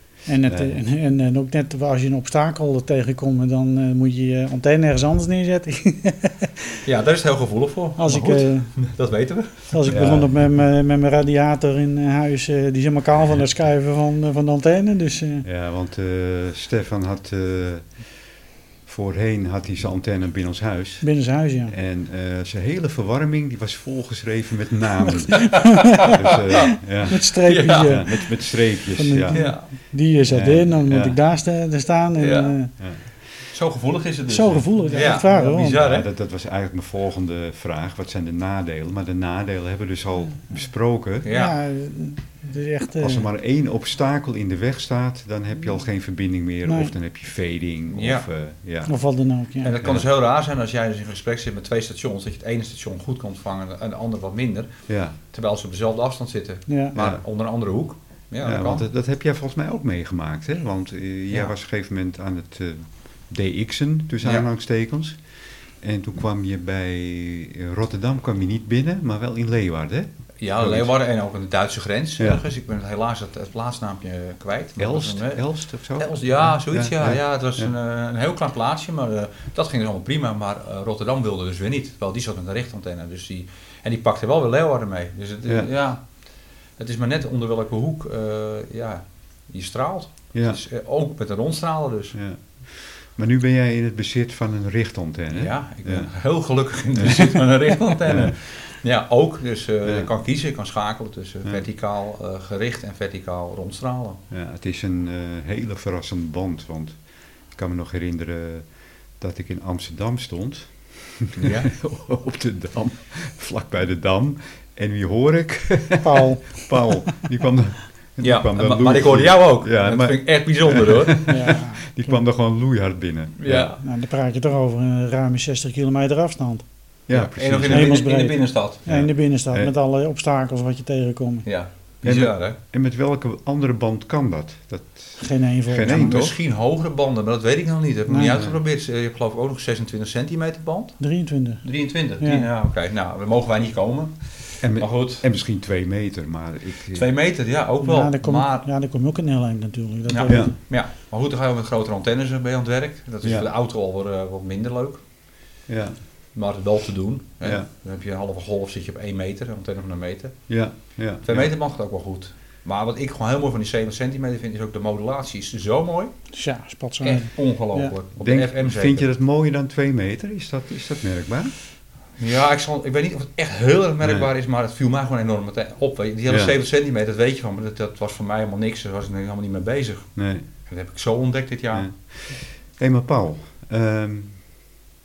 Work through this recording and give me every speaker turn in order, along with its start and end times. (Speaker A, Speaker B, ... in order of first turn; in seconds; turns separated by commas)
Speaker A: 0.2-6.7, Speaker B: 0.5-0.8, Speaker C: 6.8-9.8, Speaker A: 8.0-8.7, Speaker A: 9.7-15.4, Speaker B: 9.9-10.3, Speaker B: 15.4-17.9, Speaker B: 18.9-21.1, Speaker A: 21.0-21.7, Speaker B: 21.7-27.2, Speaker A: 25.2-26.1, Speaker C: 25.4-26.4, Speaker A: 27.1-28.2, Speaker C: 27.4-28.0, Speaker B: 27.8-29.4, Speaker A: 28.9-32.7, Speaker C: 29.3-29.7, Speaker B: 30.3-31.2, Speaker C: 32.2-32.5, Speaker C: 33.5-36.0, Speaker A: 34.3-35.8, Speaker B: 35.8-41.3, Speaker C: 41.2-41.5, Speaker A: 41.3-43.2, Speaker B: 43.0-48.9, Speaker A: 46.6-46.9, Speaker C: 47.9-48.3, Speaker A: 48.9-49.7, Speaker C: 49.6-54.7, Speaker B: 54.9-55.2, Speaker C: 55.3-58.8, Speaker A: 56.7-57.0, Speaker B: 57.0-57.2, Speaker B: 58.4-65.2, Speaker B: 65.8-70.9, Speaker C: 70.4-75.4, Speaker B: 74.8-77.7, Speaker C: 76.0-86.0, Speaker C: 86.8-92.2, Speaker B: 92.1-96.1, Speaker C: 95.3-104.2, Speaker B: 98.0-98.3, Speaker B: 99.8-100.1, Speaker B: 104.3-107.0, Speaker B: 107.5-108.6, Speaker B: 109.2-123.7, Speaker C: 111.4-111.7, Speaker A: 116.0-117.1, Speaker C: 118.2-121.3, Speaker A: 121.3-122.2, Speaker C: 123.4-123.8, Speaker A: 123.8-126.6, Speaker B: 127.1-127.9, Speaker C: 127.1-128.8, Speaker A: 127.7-131.4, Speaker B: 128.9-129.7, Speaker C: 131.4-132.6, Speaker B: 132.0-136.3, Speaker A: 135.2-136.2, Speaker C: 135.8-141.0, Speaker A: 141.0-141.6, Speaker C: 141.6-145.2, Speaker A: 142.2-142.5, Speaker B: 144.6-147.1, Speaker C: 146.9-148.7, Speaker A: 147.8-150.5, Speaker C: 150.1-155.0, Speaker B: 153.2-153.5, Speaker B: 155.7-156.0, Speaker C: 156.3-160.4, Speaker B: 160.5-161.5, Speaker C: 161.2-166.1, Speaker A: 166.3-167.9, Speaker C: 167.0-169.1, Speaker B: 168.2-171.5, Speaker C: 172.2-180.1, Speaker B: 180.2-180.4, Speaker C: 180.7-181.9, Speaker B: 182.8-184.4